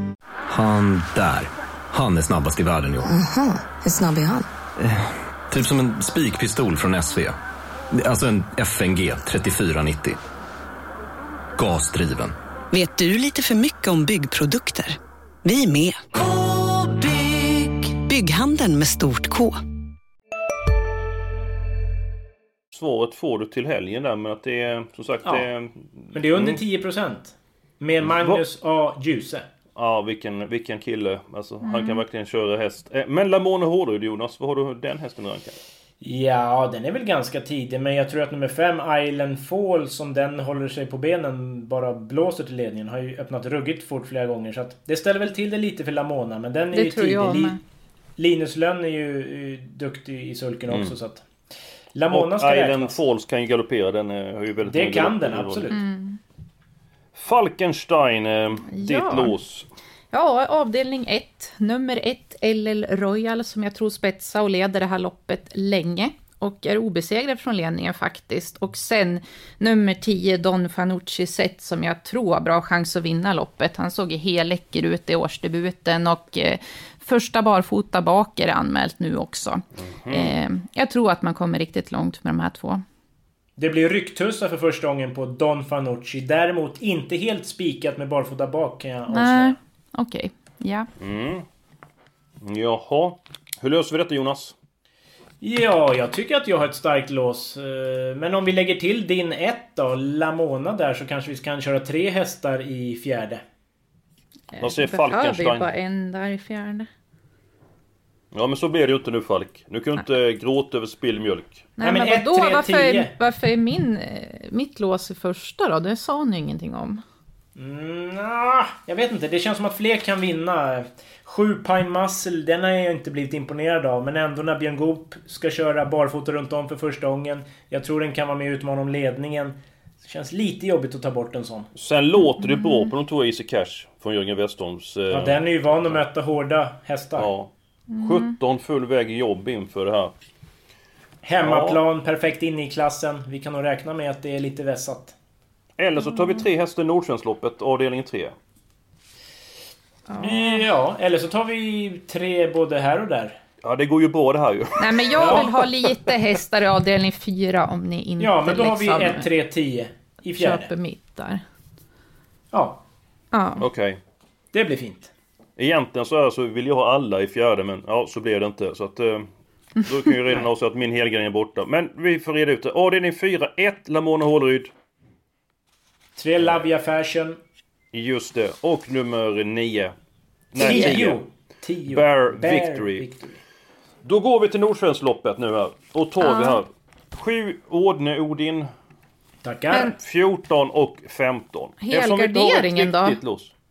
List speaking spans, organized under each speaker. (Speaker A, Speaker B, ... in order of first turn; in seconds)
Speaker A: 0.5-3.1, 4.8-7.3, 7.9-10.2, 11.6-12.3
Speaker B: 3.9-4.4, 12.7-19.6
Speaker C: 22.7-26.6, 28.0-28.4, 29.8-35.6, 50.7-50.9, 52.1-55.7, 57.1-59.7, 79.8-80.3, 91.0-91.5, 92.4-94.5, 104.6-105.7, 108.3-111.7, 131.8-136.0, 137.2-140.1, 141.4-141.8, 145.8-148.3, 153.6-156.1, 163.6-164.0, 165.6-169.3, 169.8-174.7, 177.9-179.9, 180.5-181.2, 181.9-183.1, 184.0-188.7, 189.9-193.5
Speaker D: 26.1-29.5, 36.0-47.6, 48.2-51.2, 51.9-53.0, 54.7-55.8, 83.6-89.6, 95.4-103.4, 111.8-113.1, 117.6-131.7, 135.1-137.3, 141.2-145.2, 150.2-153.4, 155.2-155.5, 158.2-160.7, 162.5-162.8, 164.5-165.1, 176.2-177.4, 180.6-183.4, 189.4-189.9
Speaker E: 31.6-32.0, 46.7-47.6, 55.7-56.2, 58.7-59.4, 60.1-82.8, 89.1-90.9, 104.5-106.9, 111.8-117.0, 132.4-132.9, 137.9-138.3, 146.1-146.4, 150.1-150.7, 154.8-159.3, 160.4-161.4, 163.3-163.7, 180.6-180.9, 186.2-186.6, 191.8-193.2